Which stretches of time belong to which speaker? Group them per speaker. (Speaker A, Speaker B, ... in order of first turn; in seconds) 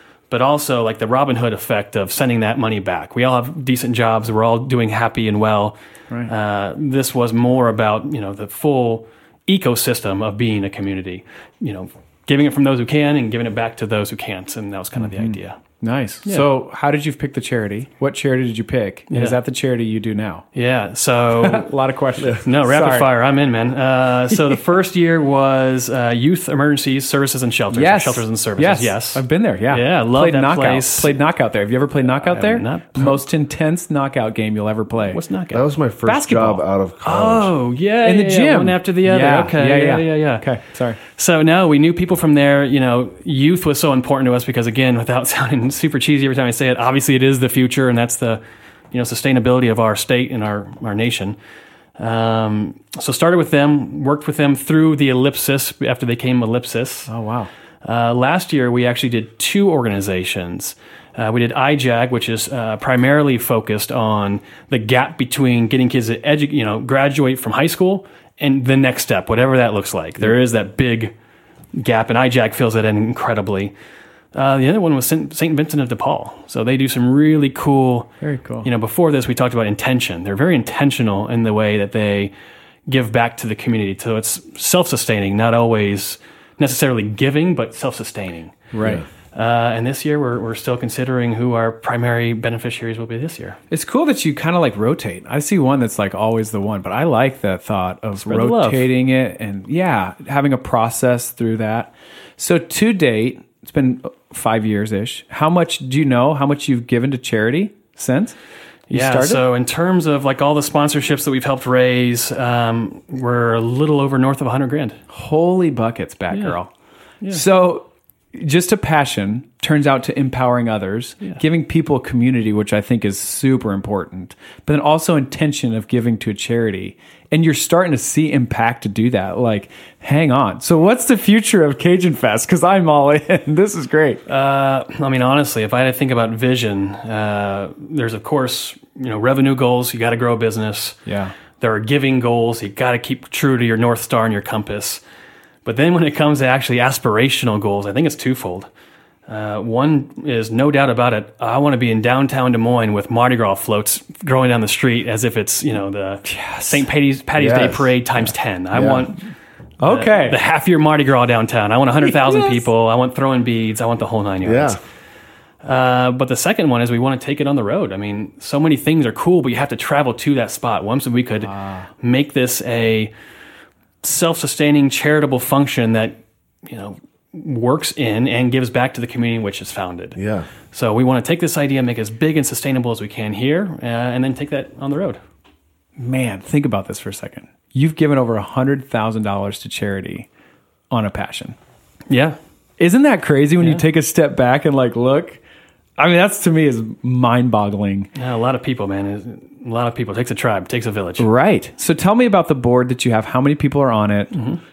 Speaker A: 0.3-15.6, 19.1-19.4, 20.5-21.7, 22.4-31.1, 32.1-33.1, 35.1-35.6, 37.0-40.5, 41.0-51.4, 52.0-57.1, 57.8-71.1, 71.7-73.7, 74.3-78.1, 78.6-82.3, 82.9-88.6, 89.3-93.6, 98.2-98.9, 108.9-115.0, 134.3-141.0, 141.6-145.0, 145.7-148.7, 149.3-159.2, 159.9-164.8, 165.6-173.1, 174.0-180.2, 180.7-185.2, 192.1-192.4, 193.6-193.8, 198.2-201.3, 204.3-204.6
Speaker B: 15.0-20.4, 21.4-23.1, 27.7-35.2, 36.1-36.6, 38.0-41.0, 57.1-57.5, 78.2-78.7, 88.7-89.0, 93.7-108.4, 108.9-109.4, 115.1-116.7, 117.3-134.2, 141.1-141.3, 156.3-156.8, 159.8-160.4, 162.0-162.6, 171.4-171.9, 186.0-190.3, 190.9-191.6, 192.8-195.4, 196.0-198.1, 201.2-204.4
Speaker C: 35.5-37.5, 157.4-157.9, 158.7-159.1, 164.4-164.8, 180.2-180.5